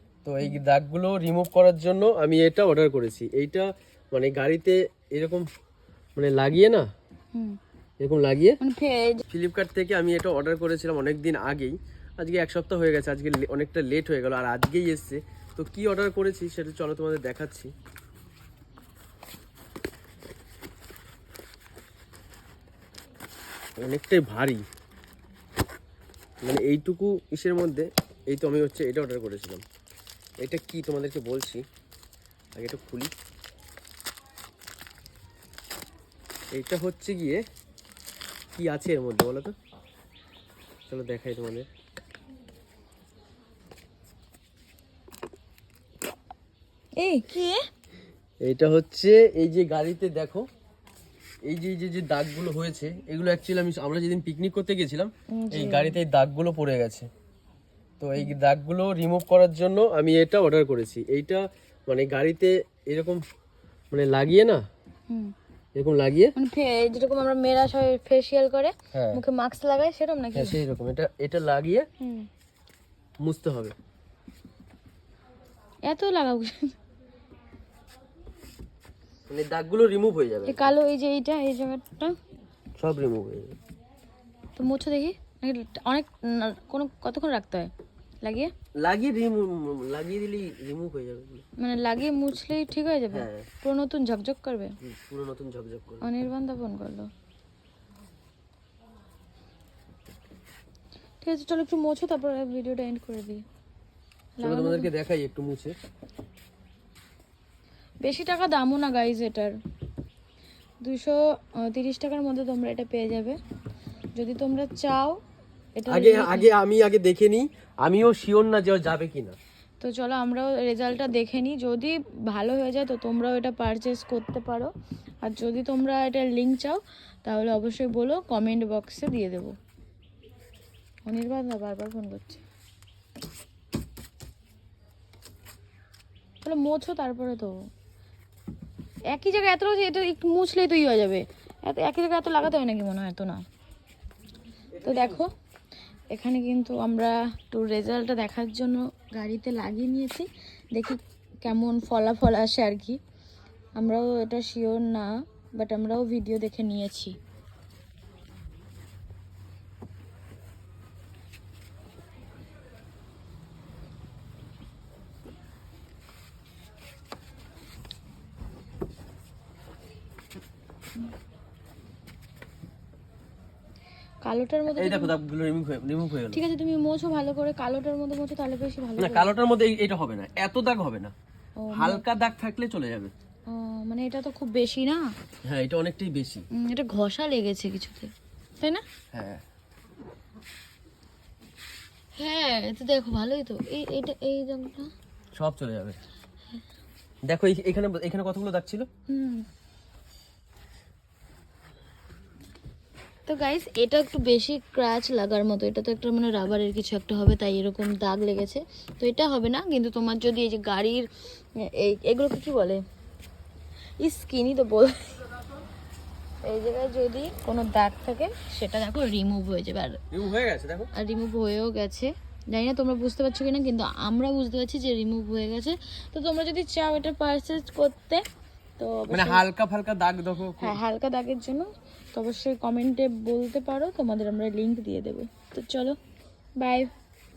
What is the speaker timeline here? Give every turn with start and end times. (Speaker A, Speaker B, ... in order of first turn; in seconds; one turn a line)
Speaker A: 0.2-5.5
Speaker A: 6.2-6.8
Speaker A: 8.0-8.6
Speaker B: 8.6-9.2
Speaker A: 9.3-17.7
Speaker A: 23.8-24.6
Speaker A: 26.4-29.6
Speaker A: 30.4-31.6
Speaker A: 32.5-33.1
Speaker A: 36.5-37.4
Speaker A: 38.5-39.5
Speaker A: 40.9-41.7
Speaker B: 47.0-47.6
Speaker A: 48.4-50.5
Speaker A: 51.5-57.1
Speaker B: 55.4-56.0
Speaker A: 58.0-63.2
Speaker A: 63.9-64.6
Speaker A: 65.8-66.3
Speaker B: 66.4-70.6
Speaker A: 68.9-69.2
Speaker A: 70.3-71.9
Speaker B: 72.0-72.3
Speaker A: 73.2-73.8
Speaker B: 75.9-76.7
Speaker A: 79.3-80.7
Speaker B: 80.5-82.2
Speaker A: 82.8-83.5
Speaker B: 84.6-87.7
Speaker B: 88.2-88.5
Speaker A: 88.8-91.5
Speaker B: 91.6-94.8
Speaker A: 93.1-93.5
Speaker A: 94.8-96.0
Speaker B: 96.0-97.1
Speaker B: 101.2-103.4
Speaker B: 104.4-104.9
Speaker A: 104.4-105.7
Speaker B: 108.0-109.5
Speaker B: 110.8-113.4
Speaker B: 114.2-115.2
Speaker B: 115.8-116.5
Speaker A: 115.9-119.4
Speaker B: 119.8-124.7
Speaker B: 125.2-129.5
Speaker B: 131.1-132.4
Speaker B: 136.4-137.5
Speaker B: 139.1-143.4
Speaker A: 144.8-145.2
Speaker B: 144.8-145.3
Speaker B: 146.1-153.0
Speaker B: 153.8-157.2
Speaker B: 174.2-175.1
Speaker A: 174.8-176.4
Speaker B: 176.3-179.3
Speaker A: 179.0-181.1
Speaker B: 181.6-182.0
Speaker A: 181.7-183.1
Speaker B: 183.5-185.1
Speaker A: 185.4-186.5
Speaker B: 186.6-188.8
Speaker A: 189.1-189.4
Speaker B: 192.2-194.9
Speaker A: 195.4-196.0
Speaker A: 197.3-198.9
Speaker B: 199.1-199.4
Speaker B: 203.3-211.1
Speaker B: 211.6-212.8
Speaker B: 214.0-215.2
Speaker B: 216.4-220.0
Speaker A: 220.1-220.9
Speaker B: 220.9-228.2
Speaker B: 228.8-229.4
Speaker A: 229.1-230.8
Speaker B: 230.6-236.0
Speaker B: 236.6-236.9